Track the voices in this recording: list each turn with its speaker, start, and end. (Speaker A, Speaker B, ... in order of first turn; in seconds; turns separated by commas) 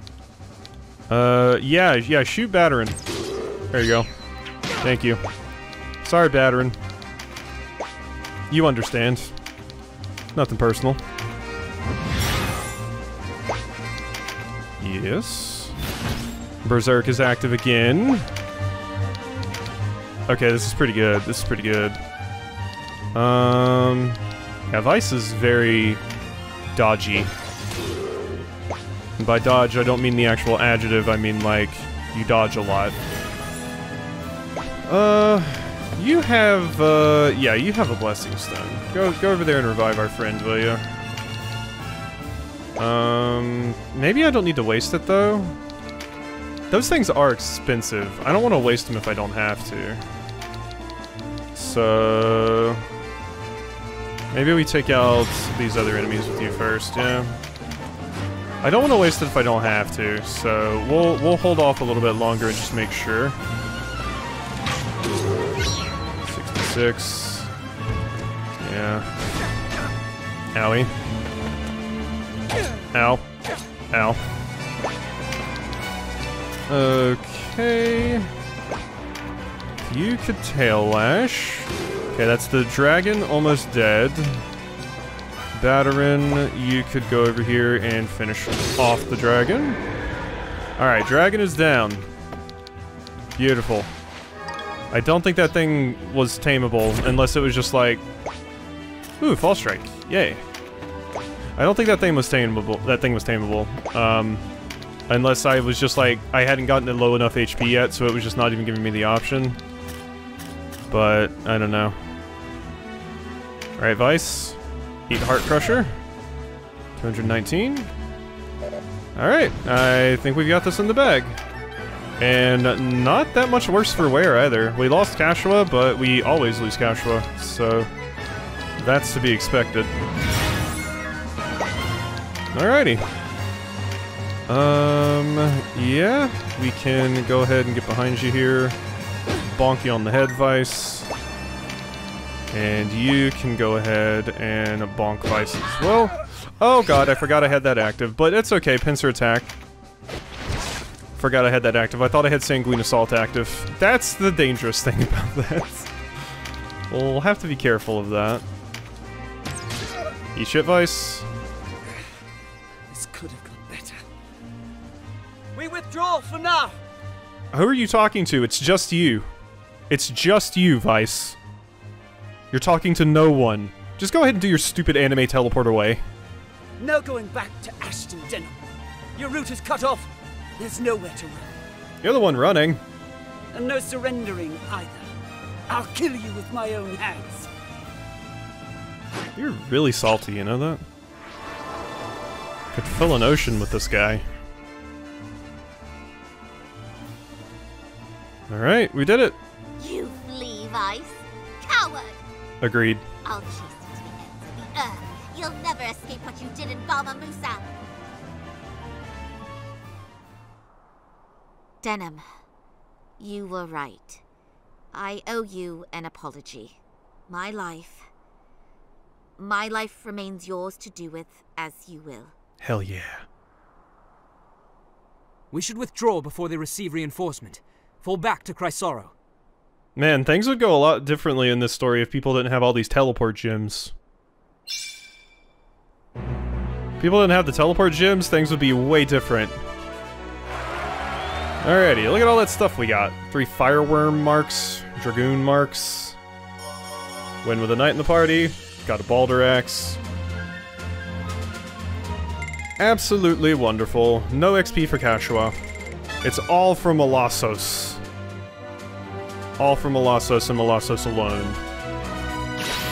Speaker A: 1.1-3.0, Speaker A: 3.7-4.1, Speaker A: 4.8-5.2, Speaker A: 6.0-6.8, Speaker A: 8.5-9.3, Speaker A: 10.3-11.0, Speaker A: 14.8-15.8, Speaker A: 16.6-18.3, Speaker A: 20.3-22.0, Speaker A: 23.1-26.0, Speaker A: 26.8-27.3, Speaker A: 29.2-33.0, Speaker A: 34.9-40.9, Speaker A: 42.8-45.6, Speaker A: 46.7-50.0, Speaker A: 51.5-52.9, Speaker A: 54.3-57.4, Speaker A: 58.6-63.4, Speaker A: 66.2-67.5, Speaker A: 68.6-69.1, Speaker A: 70.5-70.9, Speaker A: 72.9-73.3, Speaker A: 73.9-74.2, Speaker A: 76.7-78.3, Speaker A: 79.8-84.5, Speaker A: 85.5-89.8, Speaker A: 90.8-92.1, Speaker A: 93.4-93.9, Speaker A: 94.9-98.0, Speaker A: 99.2-100.4, Speaker A: 101.6-104.4, Speaker A: 105.1-109.6, Speaker A: 110.9-112.0, Speaker A: 113.8-115.9, Speaker A: 117.0-117.9, Speaker A: 119.2-121.4, Speaker A: 122.2-127.9, Speaker A: 128.8-129.9, Speaker A: 132.5-133.0, Speaker A: 134.5-138.8, Speaker A: 139.4-141.1, Speaker A: 142.5-149.5, Speaker A: 151.2-155.9, Speaker A: 156.9-158.4, Speaker A: 160.3-161.3, Speaker B: 162.9-164.1, Speaker B: 165.6-166.8, Speaker A: 167.5-169.3, Speaker A: 169.9-171.4, Speaker A: 172.5-176.0, Speaker B: 176.8-178.6, Speaker B: 179.2-181.6, Speaker A: 182.0-182.8, Speaker B: 183.5-185.1, Speaker B: 185.7-187.5, Speaker A: 189.4-190.8, Speaker A: 192.7-194.2, Speaker A: 198.5-199.4, Speaker C: 199.8-202.2, Speaker A: 202.6-203.1, Speaker C: 203.2-207.7, Speaker C: 211.8-212.2, Speaker C: 213.2-214.2, Speaker C: 214.9-216.8, Speaker C: 217.3-218.1, Speaker C: 219.4-222.3, Speaker A: 222.6-223.3, Speaker D: 225.5-229.1, Speaker A: 230.0-233.9, Speaker A: 237.0-239.6, Speaker A: 241.6-246.2, Speaker A: 247.4-250.0, Speaker A: 252.8-255.6, Speaker A: 256.2-258.0, Speaker A: 259.6-261.6